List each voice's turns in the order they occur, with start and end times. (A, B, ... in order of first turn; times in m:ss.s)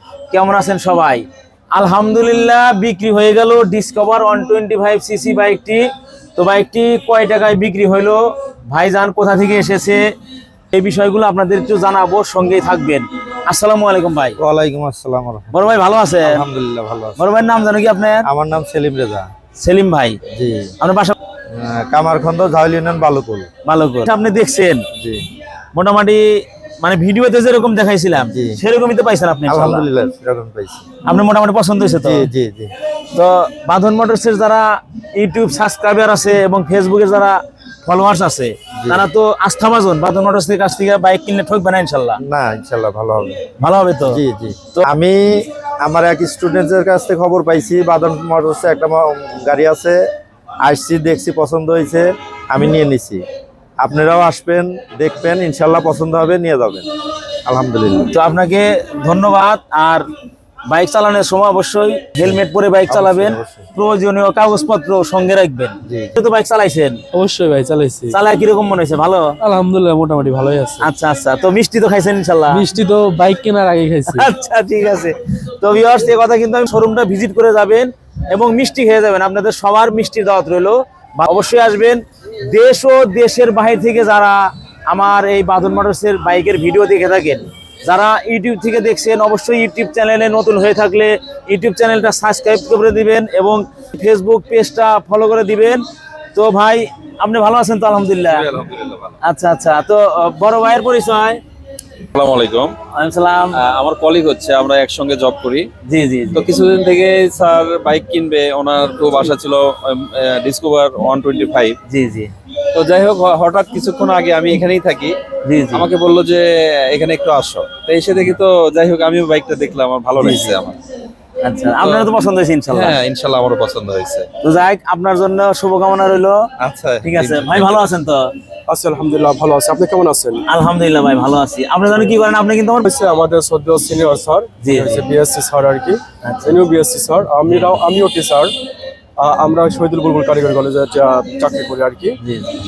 0:00.3-0:01.2 A
0:01.7-0:05.8 A
0:06.4-0:10.0 A
0:10.7-0:14.4 A
0:14.4-0:17.2 B
0:15.5-0:16.4 A
0:17.2-0:18.3 A
0:18.2-0:19.3 B
0:19.6-0:20.2 A
0:20.3-0:20.8 B
0:20.8-0:21.2 A
0:21.5-0:23.5 B
0:23.6-0:24.9 A
0:24.9-0:25.2 B
0:25.7-0:29.9 A
0:28.2-0:28.6 B
0:29.5-0:30.8 B
0:31.0-0:32.3 A
0:32.0-0:32.7 B
0:33.1-0:42.2 A
0:38.8-0:39.0 B
0:42.2-0:43.4 B
0:43.6-0:44.2 A
0:44.0-0:50.0 B
0:50.6-0:53.2 B
0:53.8-0:56.9 B
0:57.4-0:58.2 B
0:58.1-1:00.1 A
1:00.7-1:07.0 A
1:02.9-1:03.7 B
1:05.9-1:06.1 B
1:07.1-1:08.2 C
1:08.1-1:09.4 A
1:09.4-1:10.9 C
1:10.8-1:12.7 A
1:12.5-1:14.3 C
1:14.1-1:35.8 A
1:36.3-1:38.5 A
1:38.3-1:39.2 D
1:39.2-1:41.4 A
1:42.1-1:42.8 D
1:42.9-1:43.6 A
1:43.5-1:45.7 D
1:45.8-1:46.5 A
1:46.3-1:51.8 D
1:51.9-1:52.3 A
1:52.7-1:55.2 D
1:55.4-1:55.9 A
1:55.7-2:00.8 D
2:00.2-2:00.6 A
2:01.4-2:03.0 A
2:01.8-2:02.1 D
2:02.7-2:04.3 D
2:04.4-2:06.4 A
2:06.6-2:07.8 D
2:07.0-2:08.3 A
2:08.7-2:10.4 E
2:10.5-2:12.9 A
2:12.8-2:18.5 E
2:14.6-2:15.0 A
2:16.2-2:16.6 A
2:17.5-2:17.8 A
2:19.2-2:22.2 E
2:22.2-2:22.6 A